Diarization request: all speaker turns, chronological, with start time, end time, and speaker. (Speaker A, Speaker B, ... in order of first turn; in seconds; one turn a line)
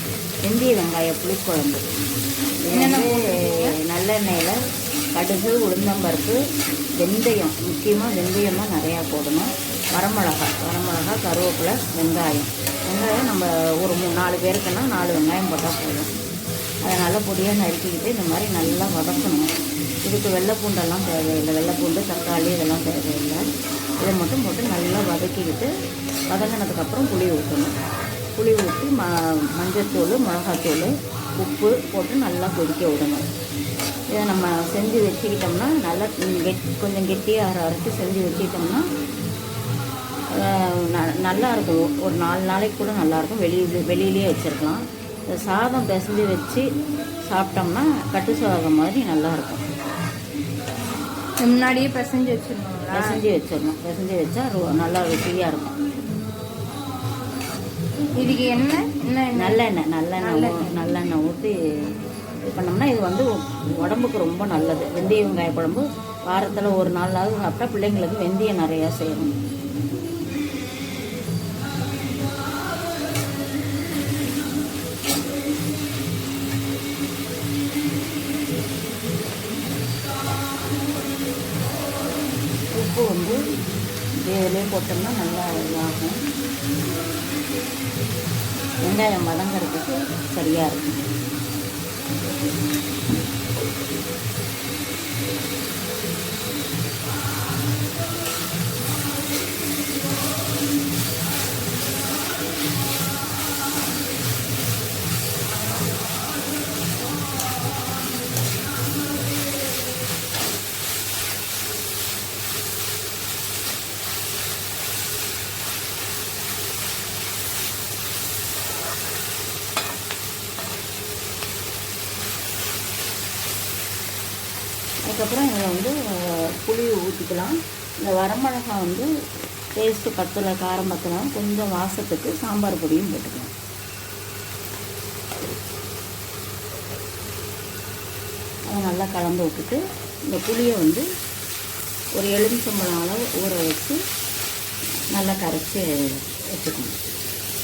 Speaker A: 0.4-1.8
Speaker A: 2.7-3.2
Speaker B: 2.7-3.8
Speaker A: 3.8-4.6
Speaker A: 5.1-6.4
Speaker A: 7.0-16.1
Speaker A: 16.8-19.5
Speaker A: 20.1-23.4
Speaker A: 24.0-25.7
Speaker A: 26.3-27.8
Speaker A: 28.4-33.3
Speaker A: 34.1-38.8
Speaker A: 40.3-46.7
Speaker A: 47.3-49.7
Speaker B: 51.4-53.2
Speaker A: 52.9-55.8
Speaker B: 58.2-59.6
Speaker A: 59.4-61.5
Speaker B: 60.2-60.8
Speaker A: 62.5-69.4
Speaker A: 82.8-83.4
Speaker A: 84.2-86.2
Speaker A: 88.8-91.1
Speaker A: 125.1-129.1
Speaker A: 129.8-133.5
Speaker A: 138.7-141.1
Speaker A: 142.2-144.0
Speaker A: 145.1-147.0